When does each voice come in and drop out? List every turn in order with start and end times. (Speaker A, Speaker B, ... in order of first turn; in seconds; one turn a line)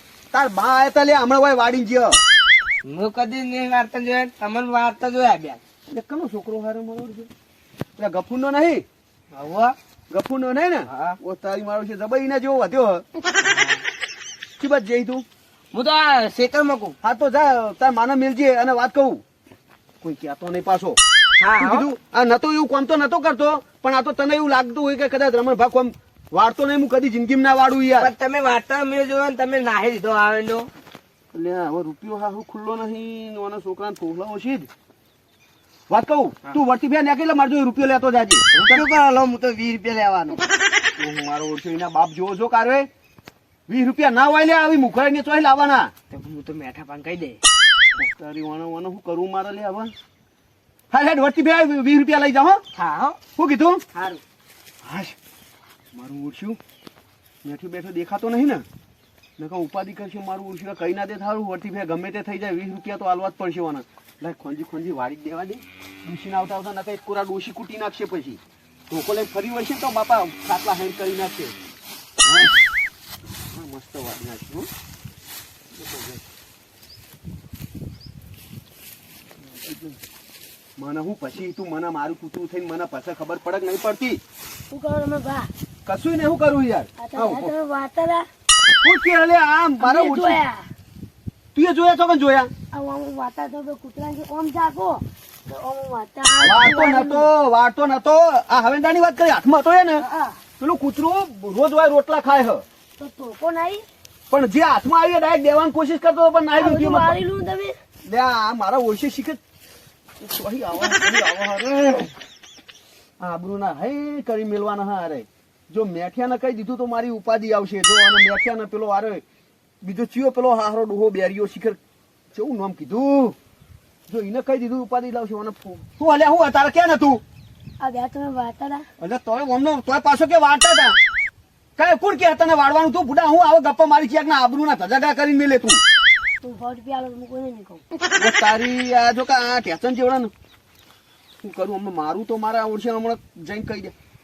Speaker A: 0.3-2.2
Speaker B: 2.8-5.6
Speaker A: 5.9-7.3
Speaker A: 8.0-8.8
Speaker B: 9.3-9.7
Speaker A: 10.1-13.0
Speaker B: 10.9-11.2
Speaker B: 13.5-13.8
Speaker A: 14.6-15.2
Speaker B: 15.7-16.9
Speaker A: 17.0-19.2
Speaker A: 20.0-21.0
Speaker B: 21.4-21.9
Speaker A: 21.6-28.1
Speaker B: 28.0-30.7
Speaker A: 31.3-34.7
Speaker A: 35.9-38.8
Speaker B: 38.5-40.4
Speaker A: 41.0-42.9
Speaker A: 43.7-45.9
Speaker B: 46.1-47.4
Speaker A: 48.0-49.9
Speaker A: 50.9-52.6
Speaker B: 52.7-53.2
Speaker A: 53.4-53.8
Speaker B: 53.9-54.2
Speaker A: 54.8-55.1
Speaker A: 55.9-56.6
Speaker A: 57.4-58.6
Speaker A: 59.4-68.4
Speaker A: 68.9-71.5
Speaker A: 72.2-72.5
Speaker A: 73.5-74.7
Speaker A: 75.8-76.2
Speaker A: 79.7-80.0
Speaker A: 80.8-84.2
Speaker C: 84.7-85.5
Speaker A: 85.8-87.5
Speaker C: 87.0-88.2
Speaker A: 88.8-90.4
Speaker C: 89.8-90.6
Speaker A: 91.5-92.5
Speaker C: 92.7-97.3
Speaker A: 96.4-100.0
Speaker C: 100.0-100.3
Speaker A: 100.6-102.6
Speaker C: 103.0-103.8
Speaker A: 104.3-107.2
Speaker C: 106.5-107.7
Speaker A: 108.0-109.4
Speaker A: 110.2-112.1
Speaker A: 113.2-119.2
Speaker A: 119.8-121.8
Speaker A: 122.3-123.3
Speaker A: 124.1-127.2
Speaker C: 127.8-128.8
Speaker A: 129.0-131.0
Speaker A: 131.8-135.8
Speaker C: 136.4-137.8
Speaker A: 138.2-140.3
Speaker A: 141.4-143.9